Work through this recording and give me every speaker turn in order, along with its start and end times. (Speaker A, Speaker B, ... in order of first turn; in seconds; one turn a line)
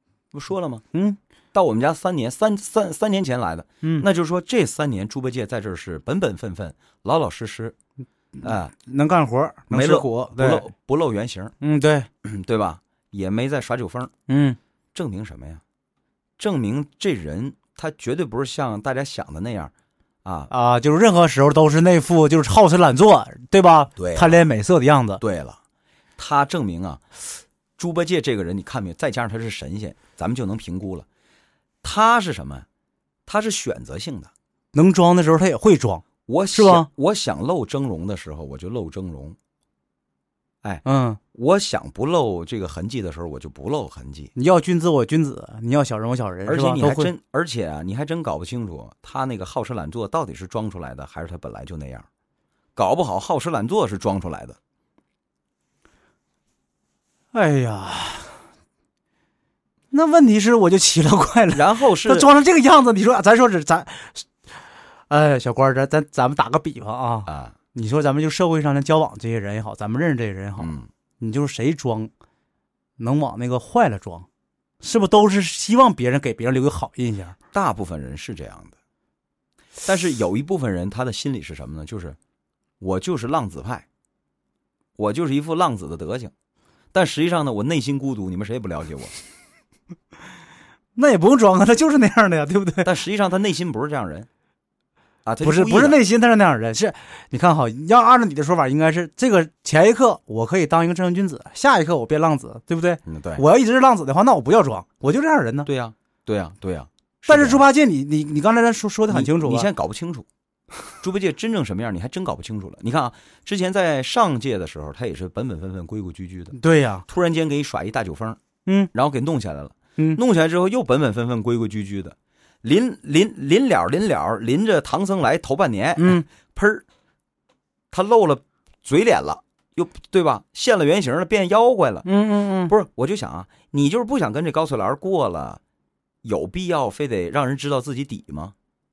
Speaker A: 0.3-0.8
Speaker B: 0.9-1.2
Speaker A: 1.5-7.7
Speaker A: 8.4-8.7
Speaker B: 8.4-10.7
Speaker A: 9.7-11.5
Speaker B: 11.6-12.1
Speaker A: 12.2-14.1
Speaker B: 14.3-14.6
Speaker A: 14.9-15.6
Speaker A: 16.4-19.7
Speaker A: 20.2-20.5
Speaker B: 20.5-25.2
Speaker A: 24.0-24.5
Speaker A: 25.2-25.6
Speaker A: 26.2-27.1
Speaker A: 27.8-31.1
Speaker A: 31.8-32.6
Speaker A: 33.2-34.3
Speaker B: 34.7-36.9
Speaker A: 36.3-39.4
Speaker A: 40.6-44.3
Speaker B: 40.8-41.2
Speaker B: 44.4-47.1
Speaker A: 46.5-52.0
Speaker A: 52.8-54.6
Speaker B: 57.3-58.4
Speaker B: 59.9-64.5
Speaker A: 61.5-62.3
Speaker B: 65.1-72.1
Speaker A: 67.2-67.5
Speaker A: 70.6-70.9
Speaker B: 73.0-74.2
Speaker B: 74.8-77.3
Speaker A: 77.5-78.7
Speaker A: 79.8-82.2
Speaker A: 82.8-83.8
Speaker A: 85.0-86.3
Speaker A: 86.9-89.1
Speaker B: 90.9-92.9
Speaker A: 92.8-94.3
Speaker A: 95.2-96.0
Speaker B: 95.4-105.7
Speaker A: 103.0-103.4
Speaker A: 105.6-107.7
Speaker B: 107.3-109.7
Speaker A: 109.1-110.3
Speaker A: 111.0-118.4
Speaker B: 116.5-117.0
Speaker A: 118.9-126.8
Speaker B: 126.0-126.2
Speaker A: 127.9-132.1
Speaker B: 132.0-132.7
Speaker A: 132.7-135.6
Speaker A: 136.2-138.5